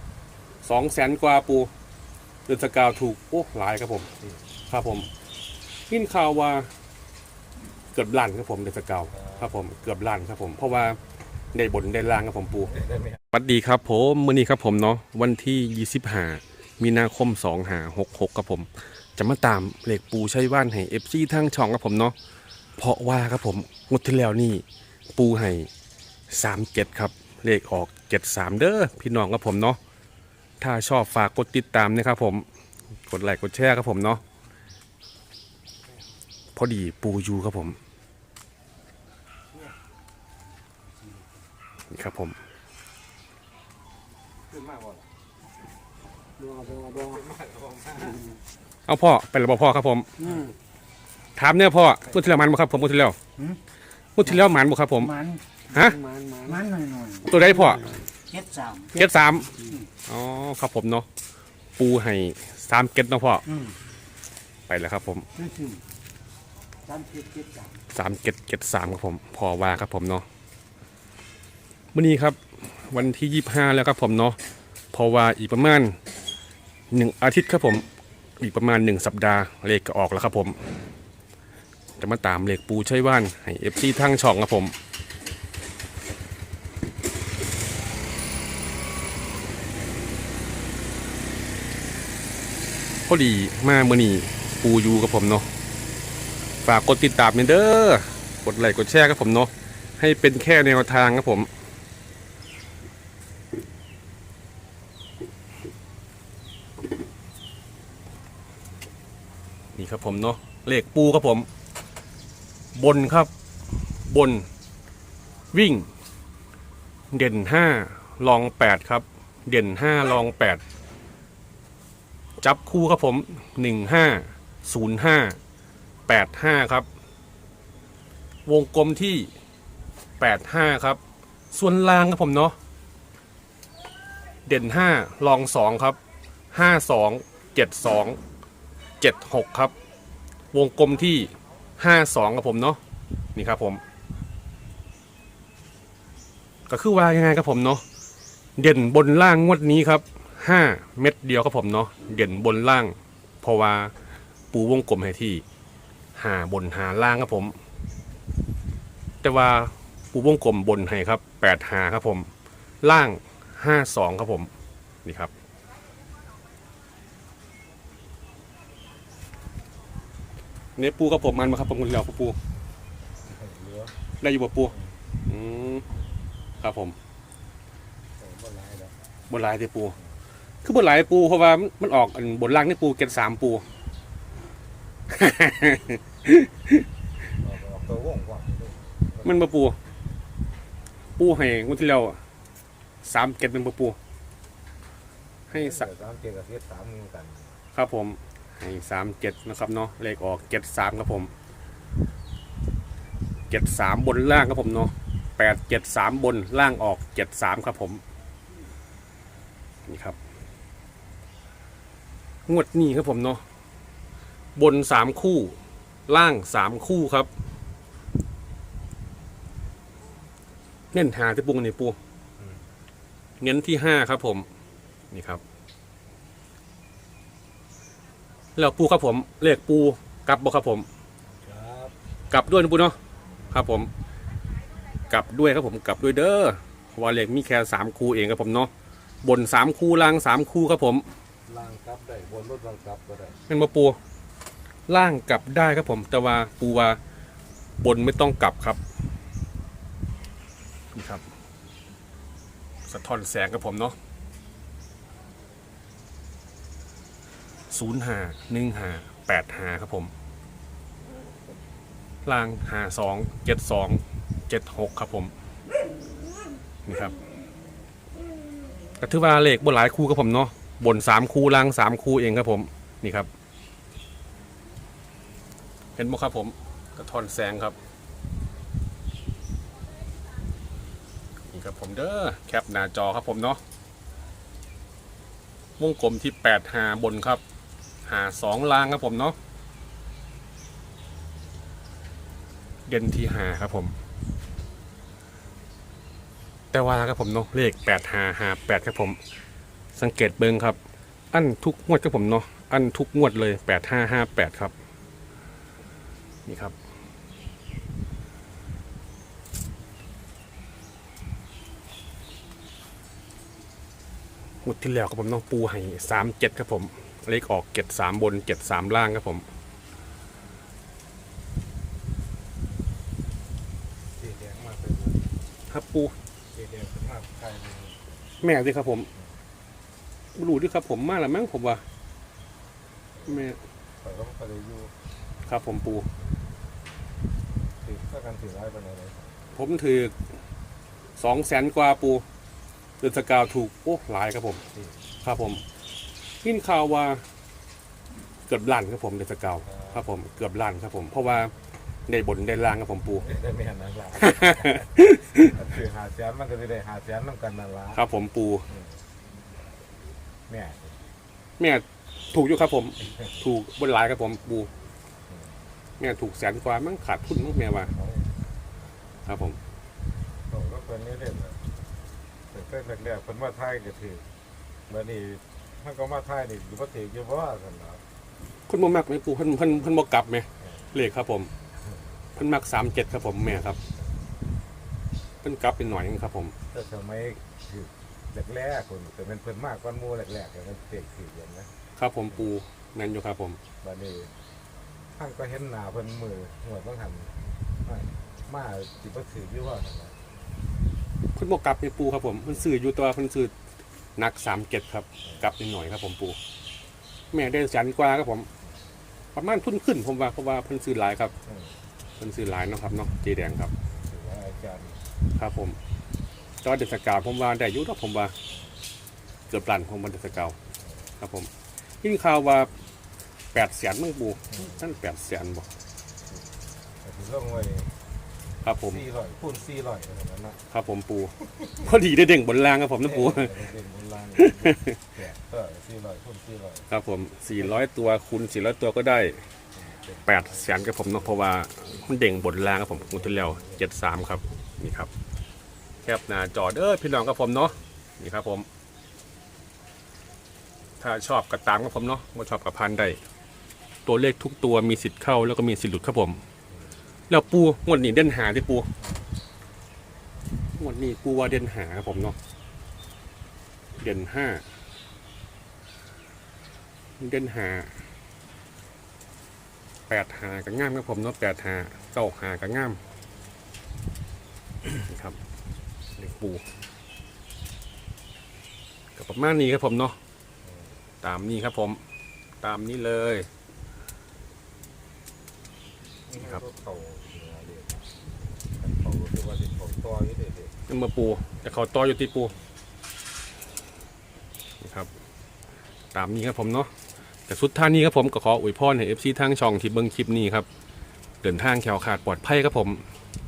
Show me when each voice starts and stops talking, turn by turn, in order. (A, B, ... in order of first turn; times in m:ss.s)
0:00.6-0:01.7 A
0:02.5-0:04.1 A
0:04.7-0:05.1 A
0:05.9-0:06.7 A
0:07.9-0:11.0 A
0:09.1-0:09.5 B
0:11.5-0:12.8 A
0:12.7-0:13.2 B
0:13.3-0:22.1 A
0:22.8-0:25.7 A
0:26.3-0:29.8 A
0:30.6-0:32.4 A
0:33.1-0:34.2 A
0:36.5-0:37.8 A
0:41.9-0:42.4 A
0:44.5-0:45.0 B
0:46.4-0:47.2 C
0:46.6-0:48.2 B
0:48.9-0:50.3 A
0:51.4-0:53.2 A
0:54.2-0:56.1 A
0:55.2-0:57.8 C
0:57.2-0:58.0 A
0:58.3-0:59.0 C
0:58.9-1:01.0 A
1:01.8-1:03.5 A
1:04.7-1:05.3 A
1:05.4-1:05.8 C
1:06.9-1:07.8 C
1:07.9-1:10.2 A
1:11.9-1:14.4 A
1:14.9-1:16.0 A
1:16.9-1:17.8 A
1:18.4-1:20.6 A
1:22.0-1:24.7 A
1:33.1-1:35.4 A
1:36.6-1:41.5 A
1:49.7-1:51.5 A
1:52.8-1:53.3 A
1:54.0-1:54.5 A
1:55.5-1:55.9 A
1:57.1-2:00.6 A
2:02.4-2:05.4 A
2:06.1-2:06.8 A
2:08.4-2:09.3 A
2:10.2-2:11.0 A
2:11.5-2:12.6 A
2:14.5-2:16.0 A
2:16.5-2:18.2 A
2:19.0-2:19.7 A
2:20.5-2:22.8 A
2:23.3-2:23.8 A
2:26.7-2:27.8 A
2:28.6-2:33.9 A
2:34.5-2:35.4 A
2:36.2-2:37.5 A
2:39.2-2:42.3 A
2:42.8-2:44.5 A
2:45.0-2:45.3 A
2:50.8-2:52.4 A
2:53.3-2:53.9 B
2:54.2-2:54.7 A
2:55.2-2:55.9 A
2:56.6-2:57.0 A
2:58.2-2:58.9 B
2:59.3-3:00.0 A
3:00.6-3:03.6 A
3:05.1-3:06.8 A
3:07.4-3:09.4 B
3:09.2-3:09.8 A
3:11.2-3:12.2 A
3:13.0-3:14.0 A
3:15.5-3:15.9 A
3:15.5-3:17.6 B
3:17.7-3:21.3 A
3:23.5-3:28.0 A
3:29.9-3:30.2 A
3:32.5-3:33.4 A
3:34.6-3:35.6 A
3:36.1-3:37.3 A
3:40.9-3:42.0 A
3:43.4-3:44.5 A
3:45.1-3:45.4 A
3:48.6-3:50.9 A
3:51.4-3:51.9 B
3:52.3-3:53.0 A
3:53.5-3:53.9 A
3:55.1-3:58.7 A
3:59.2-4:01.0 A
4:01.5-4:03.4 B
4:03.5-4:04.0 A
4:04.9-4:07.0 A
4:07.8-4:08.8 A
4:10.9-4:11.2 A
4:12.9-4:14.0 A
4:17.7-4:20.1 A
4:22.2-4:25.3 A
4:26.8-4:27.1 A
4:29.0-4:33.3 A
4:36.0-4:37.8 A
4:41.5-4:43.6 A
4:45.8-4:47.4 A
4:48.0-4:49.4 A
4:52.9-4:54.0 A
4:56.7-4:59.2 A
5:00.0-5:00.8 A
5:01.3-5:04.7 A
5:06.4-5:06.7 A
5:14.6-5:19.4 A
5:24.2-5:25.2 B
5:25.7-5:26.1 A
5:26.5-5:28.1 B
5:28.4-5:29.1 A
5:30.4-5:31.8 A
5:33.1-5:33.5 B
5:33.3-5:33.6 A
5:34.0-5:34.9 B
5:35.4-5:36.1 A
5:37.8-5:39.6 B
5:39.5-5:40.1 A
5:41.2-5:42.2 A
5:43.0-5:44.6 A
5:44.7-5:45.0 B
5:45.2-5:45.6 A
5:46.4-5:47.2 A
5:48.5-5:51.5 A
5:49.6-5:50.0 B
5:52.1-5:53.2 A
5:53.2-5:58.0 B
5:54.2-5:55.6 A
5:57.9-5:58.7 A
5:58.7-5:59.0 B
6:00.5-6:01.0 B
6:01.6-6:04.7 A
6:05.3-6:05.6 B
6:06.0-6:07.9 A
6:07.8-6:08.3 B
6:09.2-6:09.6 A
6:10.5-6:11.6 B
6:12.5-6:14.2 B
6:14.9-6:18.0 B
6:18.7-6:21.5 A
6:20.6-6:20.9 B
6:22.4-6:23.8 A
6:25.4-6:26.5 A
6:26.7-6:31.7 B
6:32.0-6:33.6 A
6:33.8-6:34.3 B
6:35.2-6:40.2 B
6:41.3-6:43.5 A
6:44.2-6:46.4 A
6:47.3-6:48.5 A
6:49.3-6:51.3 A
6:51.4-6:51.8 B
6:52.2-6:53.7 A
6:54.0-6:55.0 B
6:55.4-6:55.8 A
6:56.6-6:58.3 A
6:59.5-7:00.6 A
7:00.8-7:01.1 B
7:01.2-7:01.5 A
7:02.0-7:02.7 A
7:03.5-7:05.7 A
7:07.0-7:07.9 B
7:08.6-7:09.0 A
7:08.8-7:10.6 B
7:10.7-7:13.6 A
7:13.0-7:16.9 B
7:14.4-7:15.0 A
7:16.9-7:19.4 A
7:19.7-7:21.1 B
7:20.2-7:25.1 A
7:22.8-7:23.8 B
7:26.0-7:28.7 A
7:31.0-7:33.2 A
7:34.0-7:36.4 A
7:37.3-7:38.9 A
7:40.8-7:42.4 A
7:44.0-7:44.6 A
7:47.2-7:47.9 A
7:50.1-7:53.0 A
7:55.1-7:55.4 A
7:56.2-7:56.6 A
7:59.2-8:00.2 A
8:01.2-8:02.0 A
8:02.6-8:03.5 A
8:06.3-8:08.1 B
8:08.7-8:10.8 B
8:10.9-8:12.5 A
8:14.8-8:15.1 A
8:16.1-8:16.9 A
8:17.5-8:20.6 A
8:21.4-8:23.0 A